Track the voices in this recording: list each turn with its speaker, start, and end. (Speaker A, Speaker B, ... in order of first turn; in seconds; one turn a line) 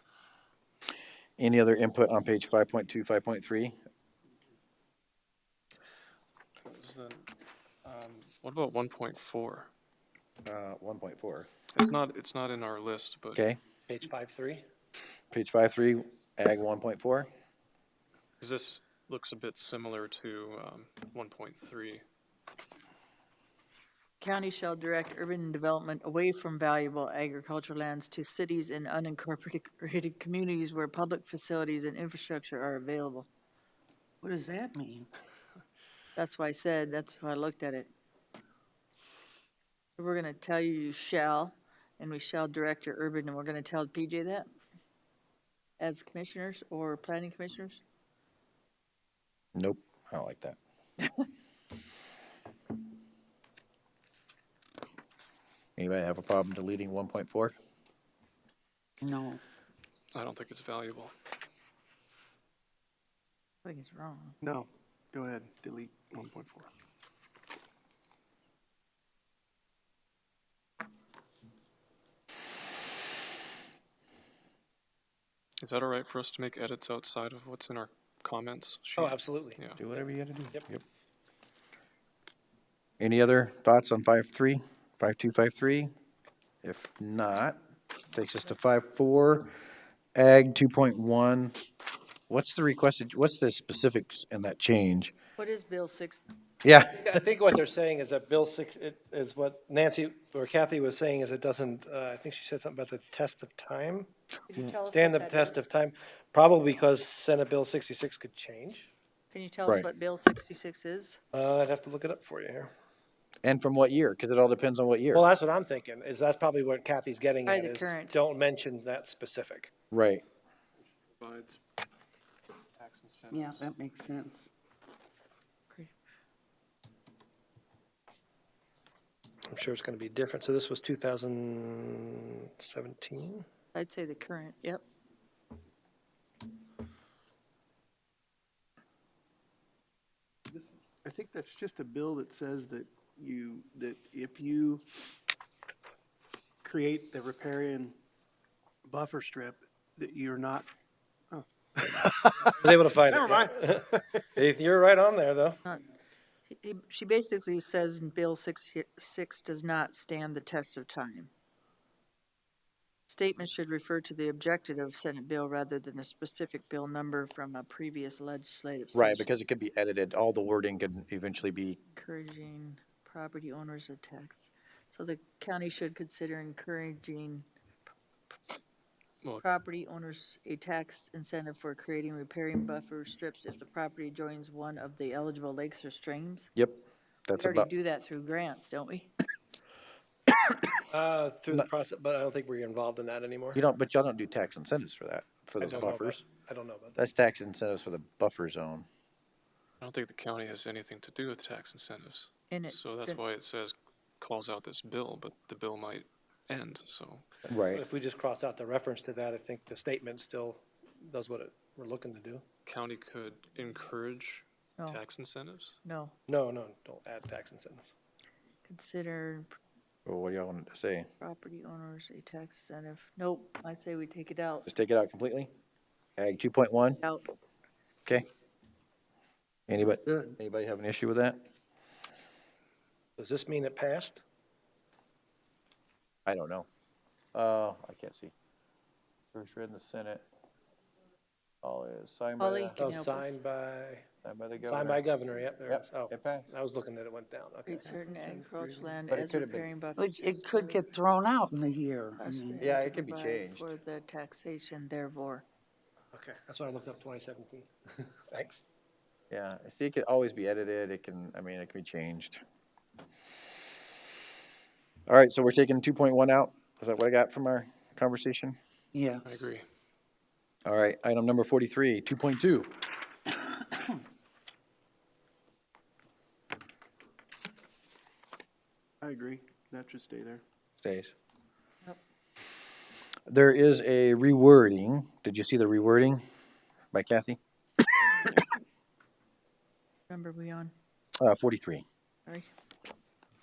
Speaker A: 1.4-3.7
Speaker B: 6.6-7.2
Speaker B: 7.8-9.7
Speaker A: 10.4-11.5
Speaker B: 11.7-13.4
Speaker C: 13.9-14.6
Speaker A: 15.3-17.3
Speaker B: 18.4-22.0
Speaker D: 24.2-33.3
Speaker E: 34.2-35.1
Speaker D: 36.1-37.9
Speaker D: 40.0-44.5
Speaker D: 45.8-47.8
Speaker A: 49.5-50.6
Speaker A: 55.8-57.5
Speaker E: 59.0-59.4
Speaker B: 60.1-61.1
Speaker D: 63.6-64.3
Speaker F: 64.4-66.7
Speaker B: 75.6-79.8
Speaker C: 79.0-79.6
Speaker A: 79.8-80.8
Speaker A: 83.0-85.9
Speaker A: 86.6-87.6
Speaker A: 88.1-89.5
Speaker A: 90.1-91.6
Speaker A: 92.3-95.1
Speaker D: 95.4-96.2
Speaker A: 96.6-97.1
Speaker C: 97.0-104.1
Speaker D: 104.5-105.6
Speaker C: 104.9-108.9
Speaker D: 109.3-111.2
Speaker C: 111.3-112.7
Speaker A: 113.4-115.2
Speaker C: 115.1-119.7
Speaker D: 117.5-118.2
Speaker A: 119.9-120.2
Speaker B: 121.2-121.6
Speaker B: 122.8-123.7
Speaker E: 123.3-124.5
Speaker C: 129.5-133.4
Speaker D: 133.7-134.8
Speaker F: 141.0-144.8
Speaker F: 146.6-147.9
Speaker F: 148.8-150.7
Speaker F: 151.3-151.9
Speaker C: 151.8-155.6
Speaker F: 153.1-153.5
Speaker D: 156.5-161.3
Speaker D: 163.1-169.3
Speaker A: 168.9-171.8
Speaker D: 171.9-177.5
Speaker D: 179.4-186.5
Speaker A: 186.6-187.7
Speaker D: 187.3-189.1
Speaker C: 190.9-193.6
Speaker A: 193.5-196.2
Speaker C: 195.6-197.0
Speaker A: 197.0-198.8
Speaker B: 199.8-207.2
Speaker D: 202.5-203.2
Speaker A: 207.5-207.8
Speaker C: 207.7-212.4
Speaker B: 212.7-215.8
Speaker D: 215.8-216.1
Speaker C: 216.3-217.8
Speaker D: 218.6-219.5
Speaker A: 220.1-221.1
Speaker D: 221.2-224.7
Speaker A: 224.7-225.5
Speaker A: 226.2-227.0
Speaker A: 229.7-231.4
Speaker C: 233.2-234.2
Speaker A: 236.2-236.7
Speaker A: 237.3-238.3
Speaker A: 239.3-240.2
Speaker A: 241.6-242.8
Speaker D: 242.4-243.3
Speaker C: 242.8-244.1
Speaker A: 244.2-245.0
Speaker C: 244.6-248.4
Speaker A: 245.7-246.5
Speaker D: 247.7-250.9
Speaker A: 249.1-249.7
Speaker E: 250.2-252.6
Speaker D: 252.2-255.4
Speaker A: 252.6-253.7
Speaker C: 256.1-258.6
Speaker A: 259.3-262.4
Speaker A: 265.1-268.6
Speaker E: 268.9-269.2
Speaker B: 269.2-269.6
Speaker A: 270.6-272.7
Speaker F: 279.0-280.4
Speaker A: 280.8-281.1
Speaker A: 283.3-286.2
Speaker A: 286.9-287.4
Speaker D: 290.1-290.7
Speaker A: 291.2-291.8